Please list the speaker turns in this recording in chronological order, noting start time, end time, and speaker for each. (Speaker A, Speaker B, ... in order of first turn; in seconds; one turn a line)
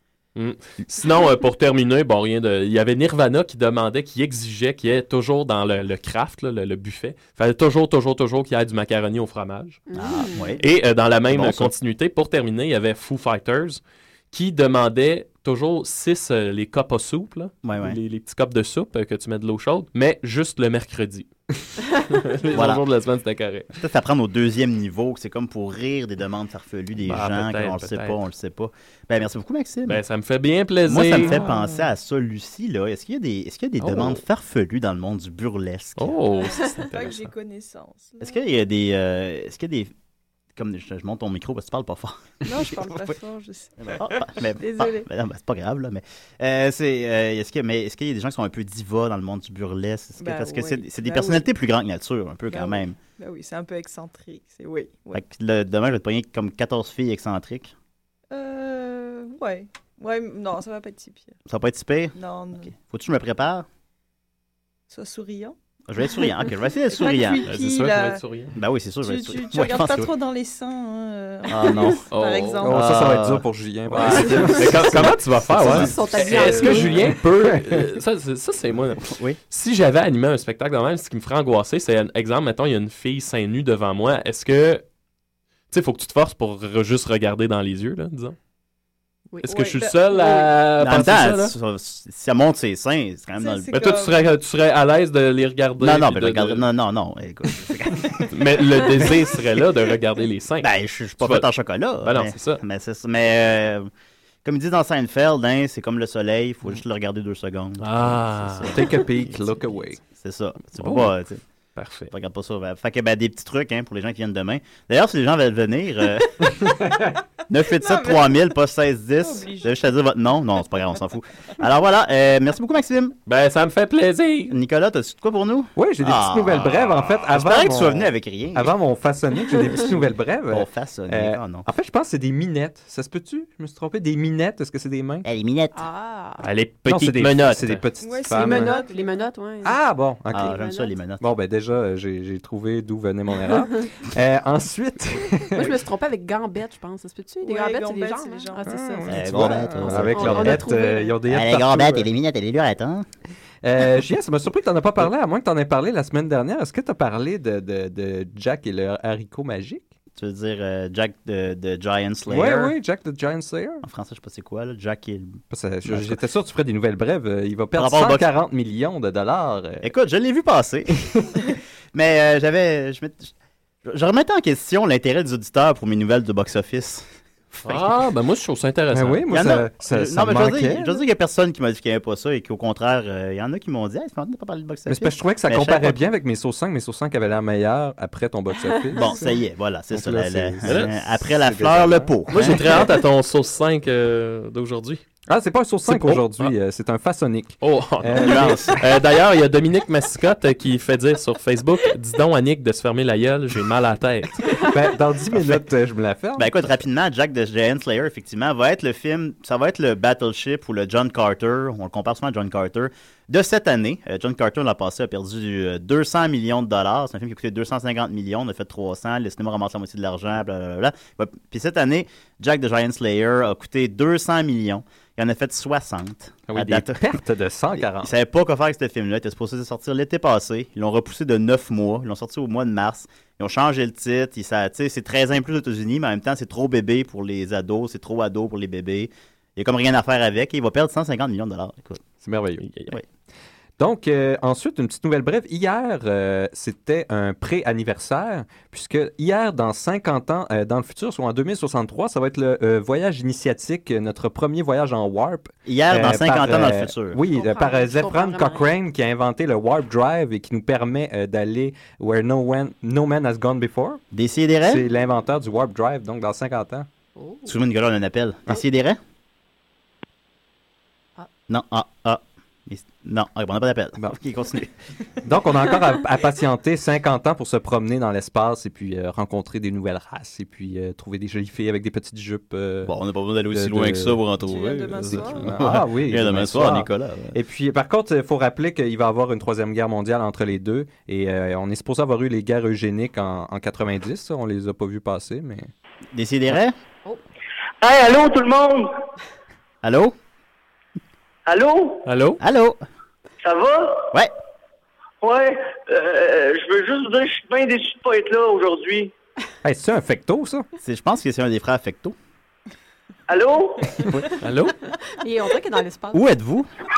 Speaker A: 0.3-9.8
Speaker B: 9.9-10.6
Speaker C: 9.9-10.6
Speaker A: 10.6-13.8
Speaker C: 11.3-11.7
Speaker A: 14.3-21.3
Speaker C: 17.6-18.0
Speaker A: 22.1-23.7
Speaker C: 22.5-22.8
Speaker C: 23.7-30.0
Speaker A: 27.1-28.2
Speaker A: 29.9-31.4
Speaker C: 30.9-36.2
Speaker A: 33.8-34.2
Speaker A: 36.0-37.3
Speaker D: 36.3-38.6
Speaker C: 38.2-39.9
Speaker C: 40.5-43.0
Speaker D: 42.4-45.1
Speaker C: 43.8-53.0
Speaker D: 50.2-51.5
Speaker D: 52.5-55.2
Speaker C: 55.1-57.7
Speaker D: 58.3-61.3
Speaker C: 61.5-62.1
Speaker D: 62.1-62.7
Speaker C: 62.6-63.6
Speaker D: 64.9-65.5
Speaker C: 65.9-67.4
Speaker D: 66.9-68.2
Speaker A: 67.5-68.5
Speaker C: 68.5-70.1
Speaker D: 69.0-73.0
Speaker C: 71.5-72.0
Speaker A: 72.1-72.6
Speaker E: 72.6-77.8
Speaker C: 72.7-73.4
Speaker A: 73.9-84.8
Speaker D: 73.9-74.4
Speaker B: 75.7-77.1
Speaker A: 85.7-88.3
Speaker A: 89.4-91.5
Speaker D: 89.4-90.3
Speaker B: 90.1-90.5
Speaker C: 90.8-93.7
Speaker D: 93.4-94.3
Speaker A: 93.7-96.6
Speaker C: 95.8-98.2
Speaker A: 98.3-101.5
Speaker C: 100.6-103.9
Speaker A: 102.0-102.6
Speaker C: 104.4-108.8
Speaker A: 107.8-108.9
Speaker E: 108.7-110.0
Speaker C: 110.2-111.4
Speaker A: 110.8-111.1
Speaker A: 111.8-112.1
Speaker C: 112.1-116.5
Speaker C: 117.5-123.2
Speaker D: 117.7-118.5
Speaker D: 119.2-119.9
Speaker A: 123.2-124.5
Speaker C: 124.5-128.7
Speaker E: 125.8-135.2
Speaker C: 130.5-131.7
Speaker C: 135.2-135.8
Speaker B: 135.7-136.5
Speaker A: 136.4-137.8
Speaker E: 136.8-138.8
Speaker D: 138.0-139.2
Speaker B: 138.3-140.9
Speaker E: 139.6-140.6
Speaker C: 140.3-141.2
Speaker E: 141.2-145.8
Speaker B: 145.5-148.9
Speaker D: 147.4-149.8
Speaker E: 148.6-152.1
Speaker C: 149.1-150.7
Speaker B: 149.8-151.2
Speaker C: 151.3-153.1
Speaker E: 153.6-159.9
Speaker C: 160.2-162.7
Speaker E: 162.2-163.8
Speaker C: 163.8-166.2
Speaker E: 165.5-169.8
Speaker C: 167.8-168.2
Speaker C: 169.8-171.1
Speaker C: 171.9-173.3
Speaker C: 173.8-177.1
Speaker A: 177.5-179.2
Speaker E: 178.9-180.9
Speaker C: 179.3-186.0
Speaker E: 184.9-189.2
Speaker B: 188.6-188.9
Speaker C: 188.9-192.8
Speaker E: 189.9-192.6
Speaker A: 190.7-190.9
Speaker A: 192.3-195.0
Speaker E: 195.3-198.8
Speaker A: 195.9-196.5
Speaker A: 197.6-204.5
Speaker C: 198.1-198.8
Speaker E: 204.6-206.5
Speaker C: 205.3-205.6
Speaker C: 206.4-227.0
Speaker E: 226.5-228.1
Speaker C: 227.8-242.0
Speaker E: 242.2-242.7
Speaker A: 242.6-242.9
Speaker E: 243.8-264.0
Speaker C: 255.7-257.2
Speaker B: 257.2-258.7
Speaker C: 264.1-264.8
Speaker E: 264.6-266.9
Speaker B: 267.1-267.6
Speaker C: 267.4-269.0
Speaker C: 271.5-274.7
Speaker E: 275.2-282.9
Speaker C: 282.9-287.3
Speaker E: 283.5-295.7
Speaker D: 284.4-285.5
Speaker C: 296.1-296.7
Speaker F: 297.8-298.9
Speaker C: 299.8-300.1
Speaker F: 301.5-302.1
Speaker A: 302.1-302.4
Speaker C: 302.4-302.8
Speaker F: 303.4-304.1
Speaker F: 305.2-309.1
Speaker E: 309.6-310.6
Speaker C: 310.8-312.1
Speaker F: 313.3-314.0
Speaker A: 314.4-314.7
Speaker B: 315.2-316.3
Speaker C: 316.1-316.7